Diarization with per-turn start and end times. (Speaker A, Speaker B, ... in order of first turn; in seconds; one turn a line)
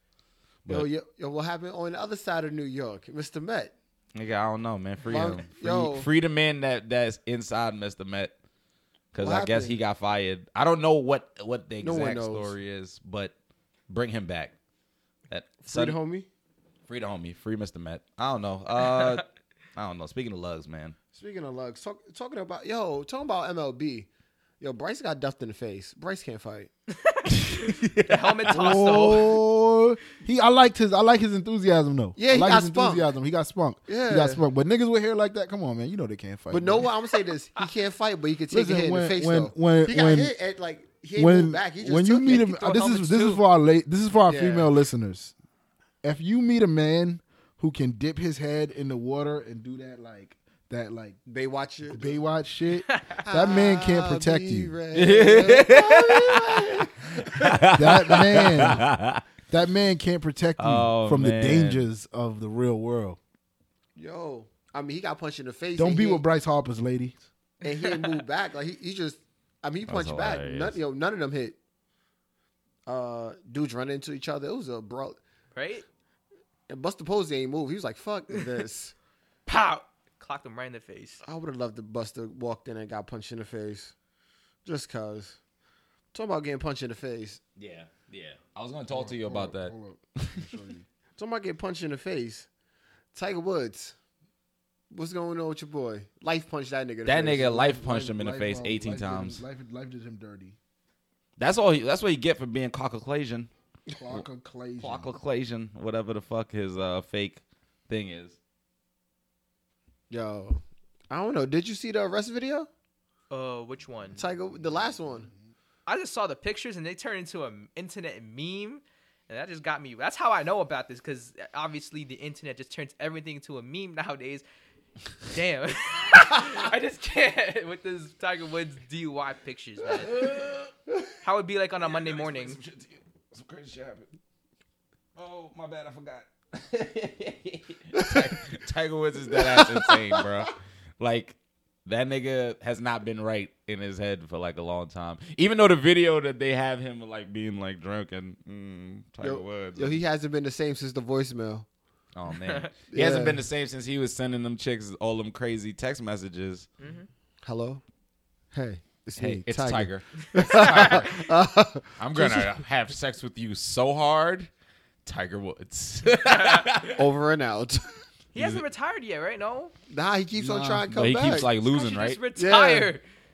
Speaker A: 0.7-3.7
Speaker B: 4.1-8.3
Speaker A: 5.0-6.1
Speaker B: 9.1-13.3
Speaker A: 9.2-9.8
Speaker A: 11.8-12.5
Speaker B: 13.9-14.5
Speaker B: 15.3-16.0
Speaker A: 15.6-16.3
Speaker B: 16.9-19.2
Speaker C: 18.8-19.2
Speaker B: 19.8-20.9
Speaker A: 21.1-24.1
Speaker A: 24.6-26.7
Speaker C: 26.9-29.4
Speaker D: 27.5-36.9
Speaker A: 32.2-33.1
Speaker A: 33.9-34.4
Speaker A: 36.5-42.5
Speaker D: 38.5-40.3
Speaker D: 41.1-45.3
Speaker C: 42.2-43.4
Speaker A: 44.2-44.7
Speaker D: 46.0-51.2
Speaker A: 51.2-52.2
Speaker D: 51.9-54.7
Speaker C: 52.8-53.2
Speaker A: 53.2-57.6
Speaker B: 54.9-59.2
Speaker D: 57.6-58.9
Speaker D: 59.5-63.2
Speaker B: 60.6-61.9
Speaker A: 63.9-66.2
Speaker D: 65.8-67.2
Speaker A: 67.6-71.6
Speaker B: 69.9-70.8
Speaker A: 72.8-75.2
Speaker C: 75.5-75.8
Speaker A: 76.7-78.9
Speaker C: 79.5-81.2
Speaker A: 81.2-83.9
Speaker A: 84.6-85.4
Speaker A: 86.1-87.4
Speaker B: 87.6-90.6
Speaker D: 88.9-90.8
Speaker A: 91.2-92.5
Speaker A: 93.1-94.0
Speaker A: 94.9-98.1
Speaker B: 97.0-99.4
Speaker D: 97.9-100.6
Speaker B: 101.4-103.5
Speaker D: 103.9-105.1
Speaker B: 104.8-108.4
Speaker A: 110.1-112.7
Speaker C: 113.3-114.2
Speaker A: 114.2-115.3
Speaker C: 115.9-124.4
Speaker C: 125.3-130.2
Speaker B: 129.9-130.7
Speaker C: 131.2-132.6
Speaker B: 131.8-134.1
Speaker B: 135.2-150.0
Speaker A: 137.9-138.4
Speaker A: 139.3-140.2
Speaker A: 149.2-151.7
Speaker B: 152.1-156.7
Speaker C: 152.3-152.7
Speaker A: 152.9-153.4
Speaker C: 156.8-157.1
Speaker A: 157.4-157.8
Speaker A: 158.5-162.6
Speaker B: 159.2-161.3
Speaker C: 160.4-160.7
Speaker B: 162.0-164.5
Speaker B: 165.0-167.1
Speaker C: 166.2-166.8
Speaker A: 166.9-168.0
Speaker C: 168.3-169.7
Speaker B: 168.3-168.6
Speaker A: 169.9-171.5
Speaker D: 170.3-171.4
Speaker B: 170.9-172.2
Speaker C: 171.6-173.0
Speaker A: 172.3-172.9